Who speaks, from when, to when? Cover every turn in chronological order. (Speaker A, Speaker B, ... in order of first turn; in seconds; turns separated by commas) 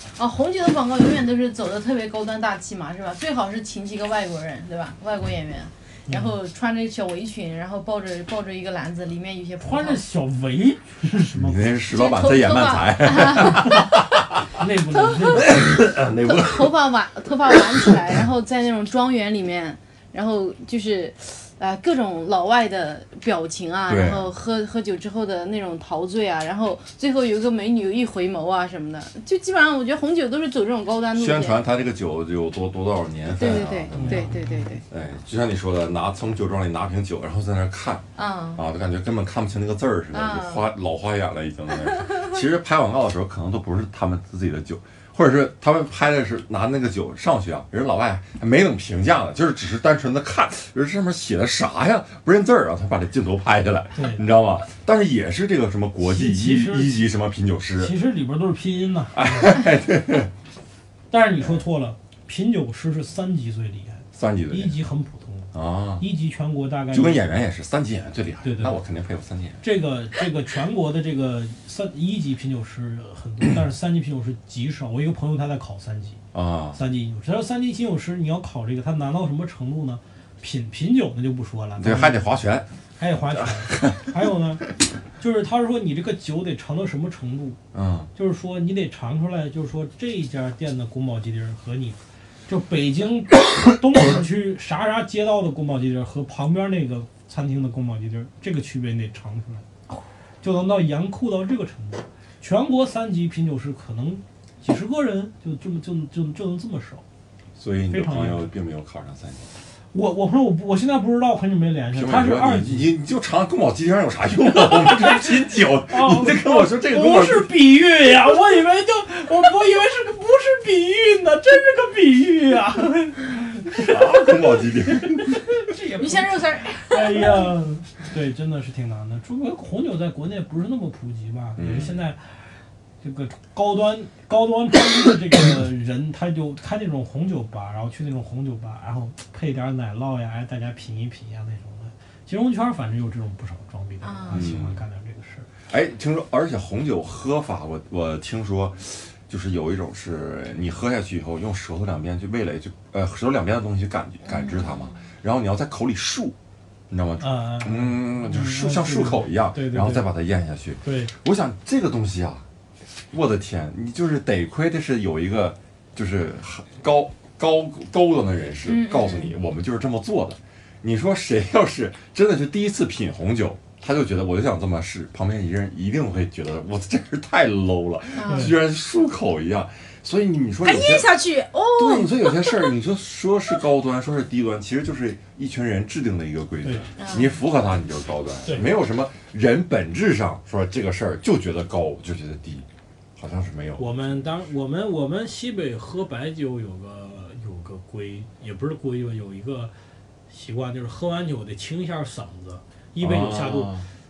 Speaker A: 0.2-10.0, Speaker B: 6.1-6.3, Speaker B: 9.6-11.7, Speaker C: 11.3-14.5, Speaker A: 11.9-13.9, Speaker B: 14.5-15.6, Speaker C: 15.4-16.8, Speaker A: 16.2-31.6, Speaker C: 23.9-24.3, Speaker C: 31.1-57.9, Speaker A: 33.3-34.9, Speaker B: 33.9-34.7, Speaker A: 38.1-38.6, Speaker A: 40.1-40.7, Speaker A: 41.9-42.3, Speaker B: 54.0-54.3, Speaker B: 56.0-57.0, Speaker B: 57.8-59.6, Speaker C: 59.1-60.3, Speaker B: 61.1-67.2, Speaker C: 64.1-64.8, Speaker C: 65.5-66.0, Speaker C: 66.9-69.6, Speaker B: 68.4-68.8, Speaker B: 69.6-76.2, Speaker C: 76.3-76.8, Speaker B: 76.7-82.2, Speaker C: 81.8-82.7, Speaker B: 83.0-87.6, Speaker C: 83.4-84.2, Speaker C: 87.7-88.1, Speaker B: 88.2-99.7, Speaker B: 100.4-107.0, Speaker C: 107.6-109.5, Speaker B: 107.9-108.5, Speaker B: 109.9-112.9, Speaker C: 111.9-117.5, Speaker B: 114.5-132.3, Speaker C: 123.7-125.6, Speaker A: 125.8-127.5, Speaker C: 131.6-132.0, Speaker B: 133.0-145.5, Speaker A: 144.0-144.5, Speaker C: 144.3-144.8, Speaker C: 145.7-156.4, Speaker A: 154.3-155.0, Speaker C: 156.9-162.4, Speaker B: 157.2-160.1, Speaker B: 160.8-161.1, Speaker C: 163.1-181.2, Speaker A: 168.7-169.3, Speaker A: 178.2-178.6, Speaker B: 178.3-178.6, Speaker A: 180.6-182.7, Speaker C: 181.8-194.2, Speaker B: 186.6-186.9, Speaker A: 187.0-187.4, Speaker B: 188.4-188.8, Speaker B: 193.8-199.7, Speaker B: 200.3-203.7, Speaker C: 203.0-203.9